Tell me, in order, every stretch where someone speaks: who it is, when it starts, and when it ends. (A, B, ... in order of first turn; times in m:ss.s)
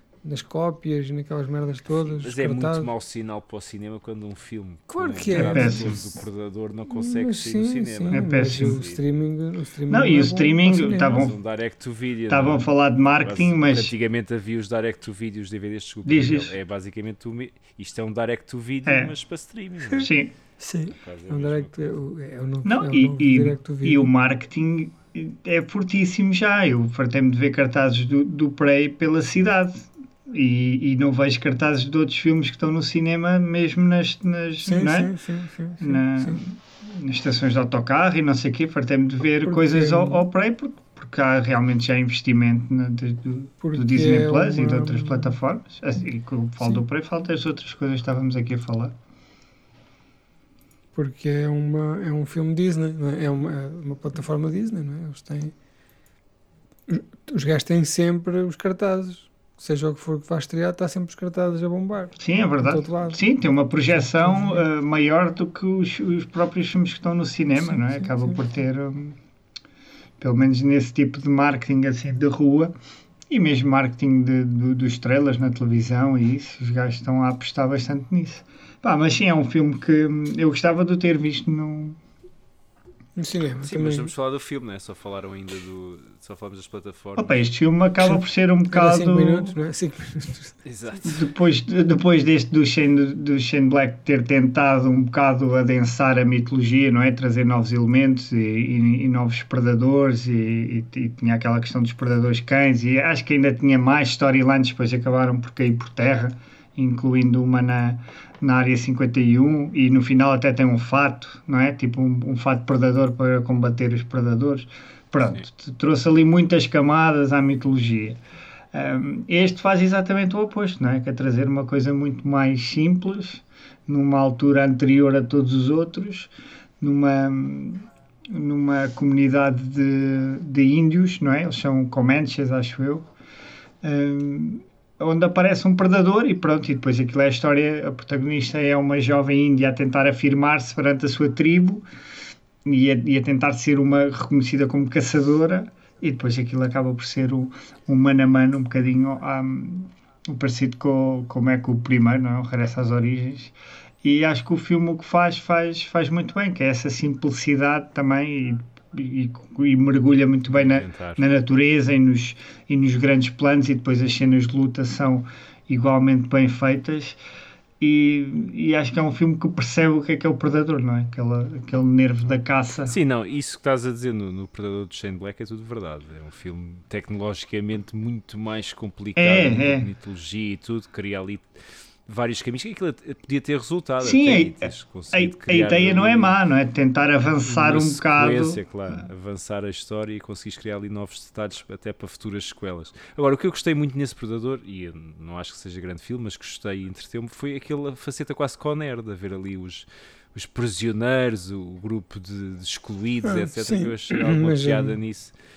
0:00.2-0:02.9 A
0:01.9-0:09.0 B
0:04.9-0:06.0 A
0:05.3-0:06.0 C
0:06.9-0:11.3 A
0:08.1-0:08.8 C
0:09.9-0:11.4 C
0:11.0-0:20.1 B
0:12.3-0:13.9 C
0:16.0-0:16.6 C
0:18.9-0:19.1 C
0:20.0-0:20.3 C
0:20.6-0:24.1 A
0:20.9-0:22.0 B
0:22.6-0:35.2 C
0:34.6-0:36.4 A
0:35.8-0:49.0 C
0:39.4-0:40.2 A
0:43.6-0:45.4 A
0:51.0-0:55.5 A
0:56.9-1:03.2 A
1:02.2-1:09.2 C
1:03.9-1:04.6 A
1:07.6-1:08.4 A
1:10.2-1:12.8 C
1:13.3-1:22.0 C
1:23.2-1:24.1 A
1:23.6-1:27.4 B
1:27.2-1:29.6 C
1:28.7-1:30.6 A
1:30.6-1:31.2 B
1:31.0-1:58.2 C
1:58.7-2:13.1 C
2:13.8-2:21.8 C
2:22.6-2:47.2 C
2:40.5-2:41.2 B
2:47.8-2:53.0 C
2:52.9-3:01.5 B
2:59.2-2:59.9 C
3:02.1-3:06.4 B
3:04.0-3:08.6 C
3:07.4-3:25.3 B
3:23.2-3:25.0 A